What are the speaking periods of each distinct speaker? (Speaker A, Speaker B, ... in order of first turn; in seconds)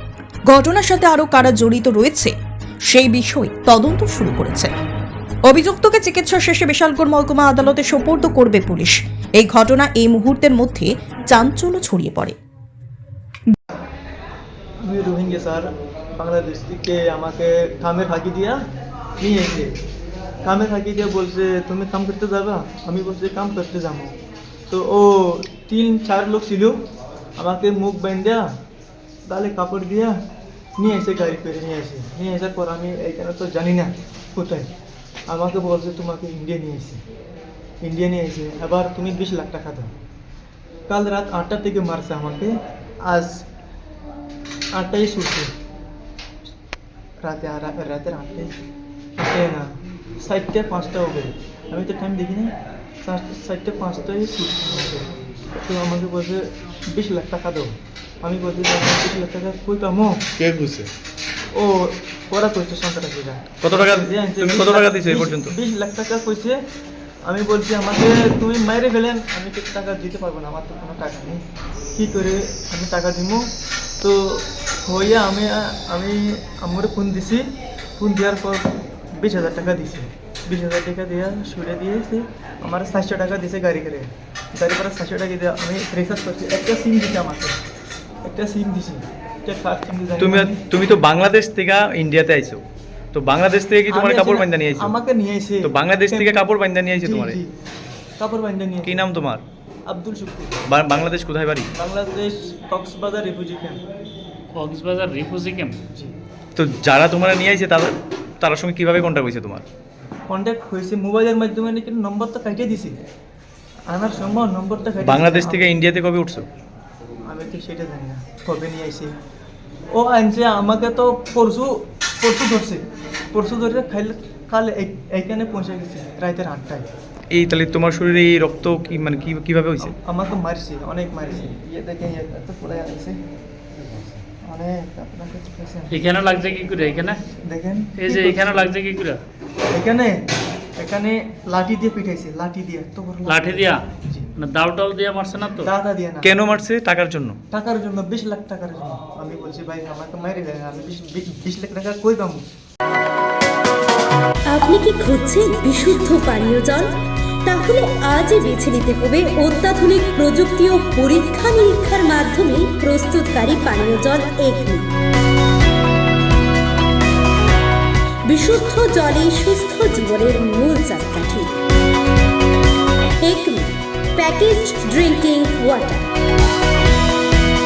Speaker A: 0.5-2.3, 2.9-4.7, 5.5-12.4
Speaker B: 14.8-18.6, 19.2-19.8, 20.4-24.2, 24.7-26.8, 27.4-28.5, 29.3-30.2, 30.8-34.7, 35.3-37.0, 37.8-39.9, 40.9-42.5, 43.1-43.4, 44.7-45.5, 47.2-48.5, 49.2-52.5, 53.0-60.3, 61.5-66.6, 67.2-71.4, 72.0-73.5, 74.0-87.6, 88.2-90.6, 93.9-96.4, 97.0-97.5, 98.2-99.0, 99.9-100.6, 101.7-103.8, 110.3-113.0, 113.9-115.7, 117.3-119.2, 119.9-126.9, 129.8-133.2, 134.4-136.0, 137.4-138.7, 139.7-144.3, 145.6-146.4, 147.5-152.5
Speaker C: 63.6-65.5, 90.2-95.0, 95.6-97.4, 98.8-99.4, 100.7-101.7, 106.6-109.7, 115.0-116.5, 127.3-130.0, 146.2-147.4
Speaker D: 104.5-105.8, 135.9-137.2, 138.0-139.2, 143.2-143.9, 144.4-145.7
Speaker E: 154.5-156.9, 157.5-164.9, 168.3-171.5, 173.2-176.1